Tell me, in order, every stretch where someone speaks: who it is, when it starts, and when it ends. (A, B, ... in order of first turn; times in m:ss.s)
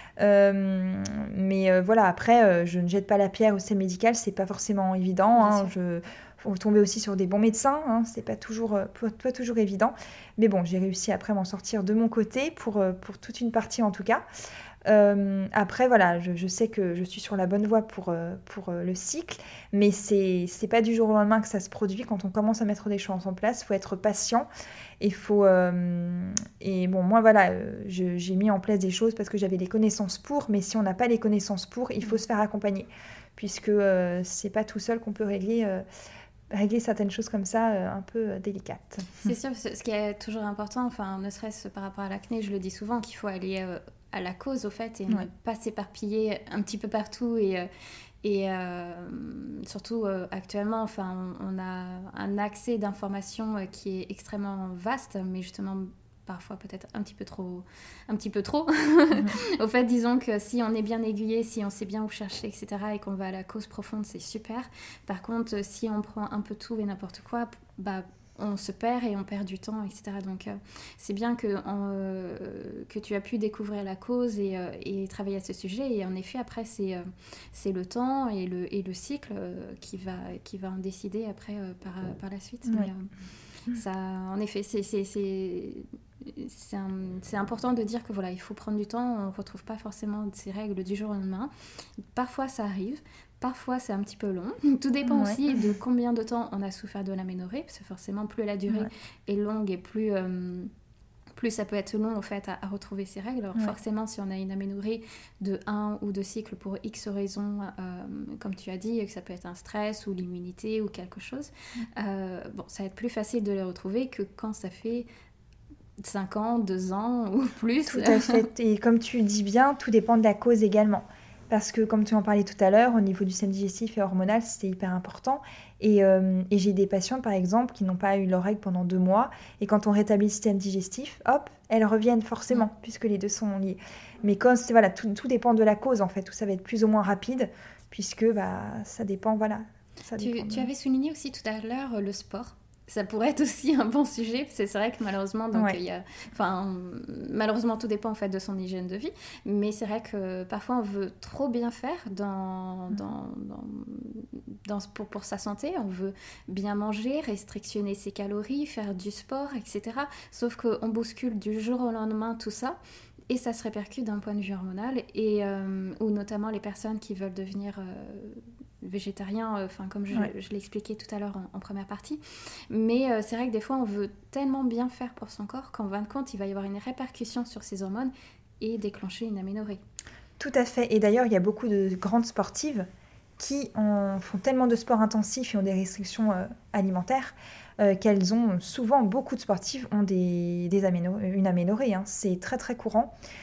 0:00.2-0:14.2 A
0:05.3-0:05.7 B
0:14.9-0:24.5 A
0:25.0-0:35.8 A
0:36.5-0:39.2 A
0:39.2-0:47.7 B
0:48.2-1:23.1 B
1:23.7-1:31.5 B
1:32.1-1:40.7 B
1:35.0-1:35.7 A
1:41.4-1:55.1 B
1:56.0-1:58.5 B
1:57.9-2:20.7 A
2:20.2-2:42.8 B
2:43.3-2:59.8 B
3:00.4-3:02.9 A
3:03.4-3:13.1 A